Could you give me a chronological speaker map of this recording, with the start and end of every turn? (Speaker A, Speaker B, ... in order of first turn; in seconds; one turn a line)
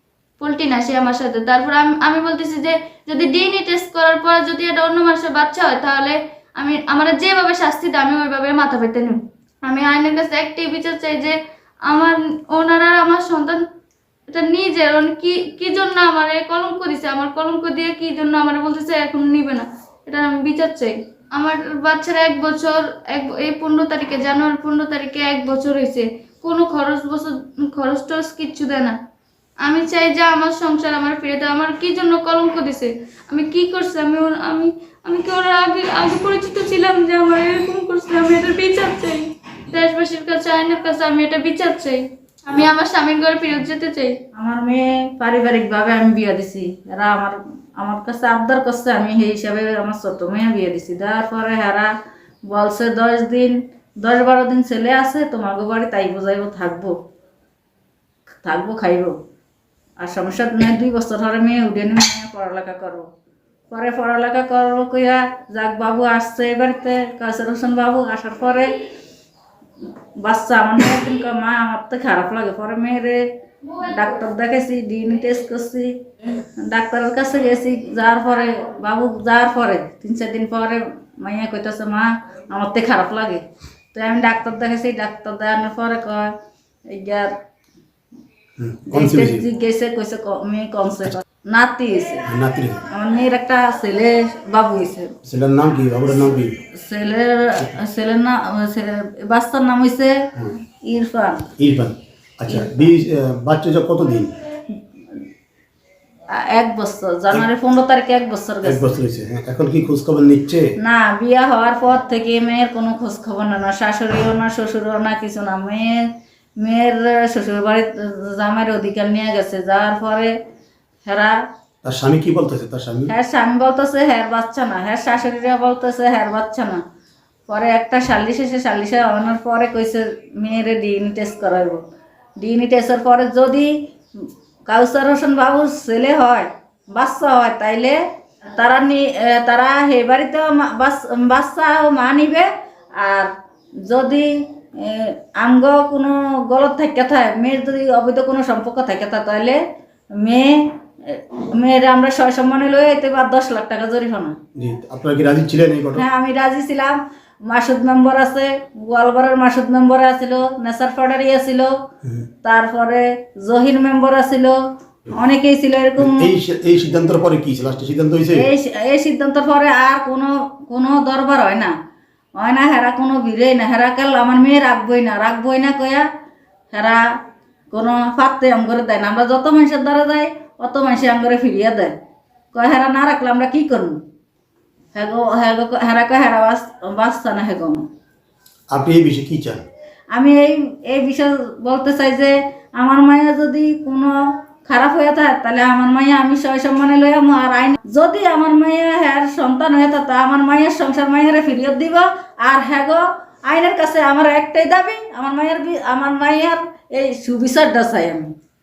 Speaker A: 0.4-13.6
Speaker A: 14.3-29.0
Speaker A: 29.6-44.2
Speaker B: 44.3-51.9
Speaker B: 52.5-56.9
Speaker B: 58.4-59.1
Speaker B: 60.0-63.1
Speaker B: 63.7-68.8
Speaker B: 70.2-73.2
Speaker B: 73.8-75.9
Speaker B: 76.6-83.4
Speaker B: 83.9-86.3
Speaker B: 86.9-87.3
Speaker C: 88.6-89.5
Speaker B: 88.9-92.3
Speaker C: 92.3-92.8
Speaker B: 92.9-95.2
Speaker C: 95.2-96.6
Speaker B: 96.8-100.3
Speaker B: 100.8-101.5
Speaker C: 101.6-104.4
Speaker B: 102.5-102.8
Speaker B: 106.3-108.9
Speaker C: 108.6-110.7
Speaker B: 110.8-120.3
Speaker B: 121.1-121.4
Speaker C: 121.8-123.1
Speaker B: 123.1-126.8
Speaker B: 127.5-131.8
Speaker B: 132.4-133.7
Speaker B: 134.7-138.0
Speaker B: 138.5-143.3
Speaker B: 143.8-149.6
Speaker B: 150.2-154.4
Speaker C: 154.6-156.0
Speaker B: 156.0-161.7
Speaker B: 162.4-164.6
Speaker B: 165.1-166.3
Speaker C: 166.0-168.5
Speaker B: 168.3-171.7
Speaker B: 172.4-176.1
Speaker B: 176.7-177.1
Speaker B: 177.7-181.9
Speaker B: 182.5-184.0
Speaker B: 184.9-187.8
Speaker C: 188.7-189.6
Speaker B: 190.1-208.3